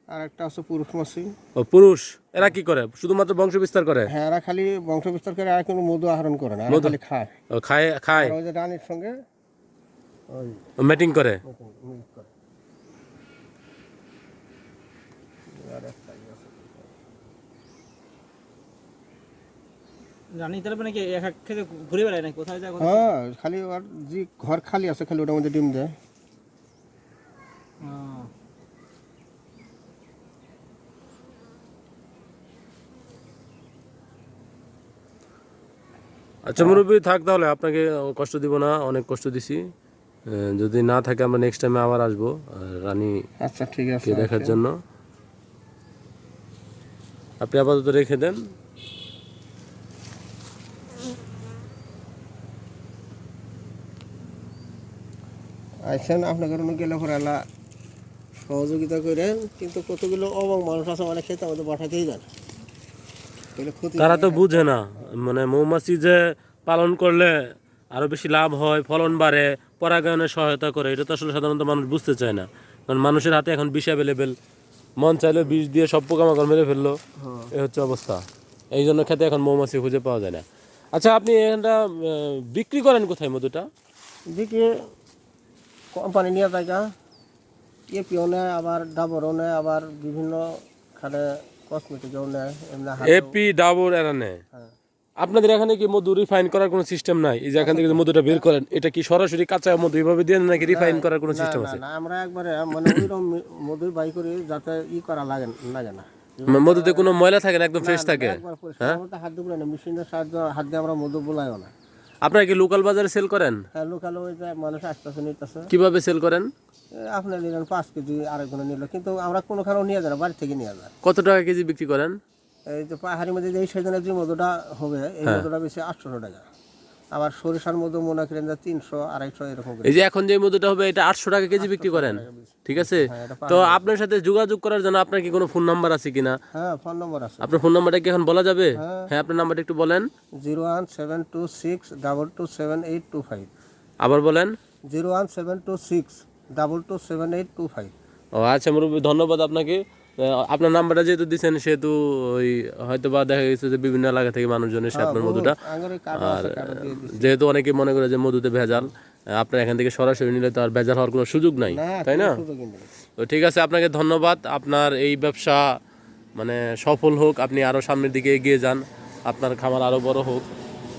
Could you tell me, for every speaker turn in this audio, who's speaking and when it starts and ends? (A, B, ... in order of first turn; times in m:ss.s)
0:00.1-0:01.3 A
0:01.6-0:04.1 B
0:04.1-0:07.3 A
0:06.7-0:07.0 B
0:07.5-0:08.4 B
0:08.1-0:09.1 A
0:10.3-0:10.6 A
0:10.8-0:11.4 B
0:11.4-0:12.3 A
0:15.5-0:16.9 A
0:20.3-0:23.1 C
0:22.8-0:26.0 A
0:27.8-0:28.3 C
0:36.4-0:39.6 B
0:36.6-0:36.8 A
0:40.3-0:43.1 B
0:43.4-0:44.6 A
0:44.0-0:44.7 B
0:47.4-0:48.4 B
0:55.9-0:57.4 A
0:58.4-1:02.3 A
1:03.6-1:04.8 A
1:04.0-1:07.4 B
1:07.9-1:14.4 B
1:15.0-1:17.0 B
1:17.2-1:17.5 A
1:17.5-1:18.2 B
1:18.7-1:23.6 B
1:24.3-1:24.7 A
1:25.9-1:26.9 A
1:27.9-1:33.4 A
1:33.0-1:34.4 B
1:35.2-1:41.8 B
1:37.6-1:38.5 A
1:40.6-1:47.1 A
1:46.5-1:49.0 B
1:47.8-1:51.7 A
1:52.2-1:53.6 B
1:53.7-1:55.7 A
1:55.7-1:56.5 B
1:57.0-2:00.9 A
2:01.0-2:02.2 B
2:02.7-2:06.4 A
2:07.2-2:10.0 A
2:09.8-2:16.4 B
2:11.5-2:13.9 A
2:16.5-2:17.6 A
2:17.4-2:20.1 B
2:18.8-2:19.1 A
2:20.4-2:23.5 A
2:24.0-2:24.5 B
2:24.9-2:27.9 A
2:28.4-2:35.6 B
2:34.9-2:37.3 A
2:36.2-2:42.4 B
2:38.6-2:38.9 A
2:41.7-2:42.9 A
2:43.2-2:45.6 B
2:46.4-2:50.5 B